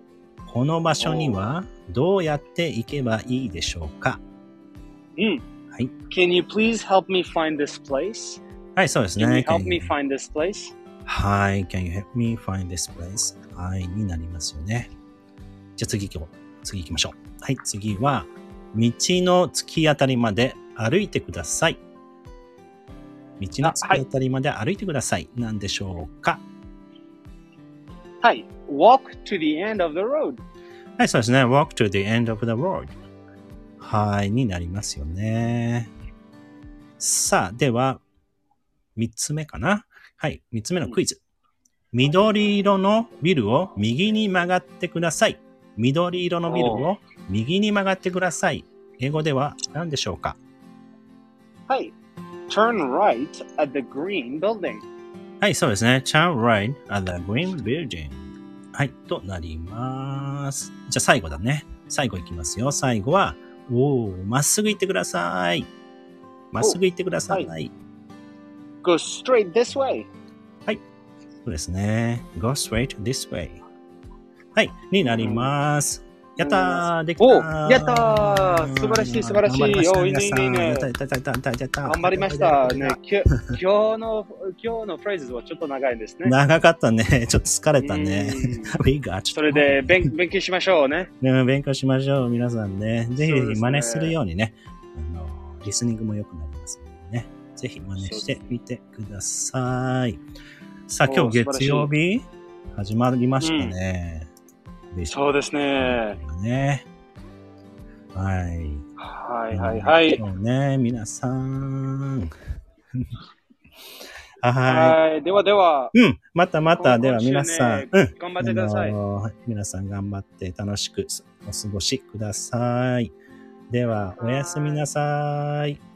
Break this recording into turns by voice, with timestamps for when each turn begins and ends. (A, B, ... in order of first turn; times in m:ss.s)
0:00.5-0:04.2 A
0:01.0-0:01.5 B
0:05.2-0:05.4 B
0:06.1-0:08.4 B
0:08.8-0:09.9 A
0:09.2-0:10.7 B
0:11.0-0:14.9 A
0:15.8-0:21.8 A
0:23.4-0:26.4 A
0:23.6-0:24.0 B
0:28.2-0:30.4 B
0:31.0-0:33.0 A
0:33.8-0:35.9 A
0:37.0-0:38.0 A
0:39.0-0:41.2 A
0:41.9-0:50.4 A
0:46.5-0:46.9 B
0:51.7-0:52.0 B
0:52.5-0:54.8 B
0:55.4-1:05.7 A
1:06.5-1:07.7 A
1:06.6-1:07.5 B
1:08.8-1:10.1 B
1:11.4-1:13.6 A
1:14.6-1:23.0 A
1:15.1-1:15.5 B
1:16.4-1:20.9 B
1:21.9-1:26.4 B
1:26.2-1:30.1 A
1:27.8-1:28.8 B
1:29.3-1:31.1 B
1:31.2-1:40.2 A
1:33.2-1:34.2 B
1:38.0-1:38.3 B
1:40.9-1:44.3 A
1:41.1-1:41.9 B
1:43.4-1:43.8 B
1:44.9-1:45.2 A
1:45.1-1:46.2 B
1:45.8-1:46.9 A
1:48.2-1:48.8 A
1:49.0-1:50.2 B
1:49.5-1:52.3 A
1:54.4-1:55.0 A
1:54.7-1:56.0 B
1:56.0-2:03.2 A
1:56.8-1:59.0 B
2:03.7-2:05.8 A
2:04.2-2:04.8 B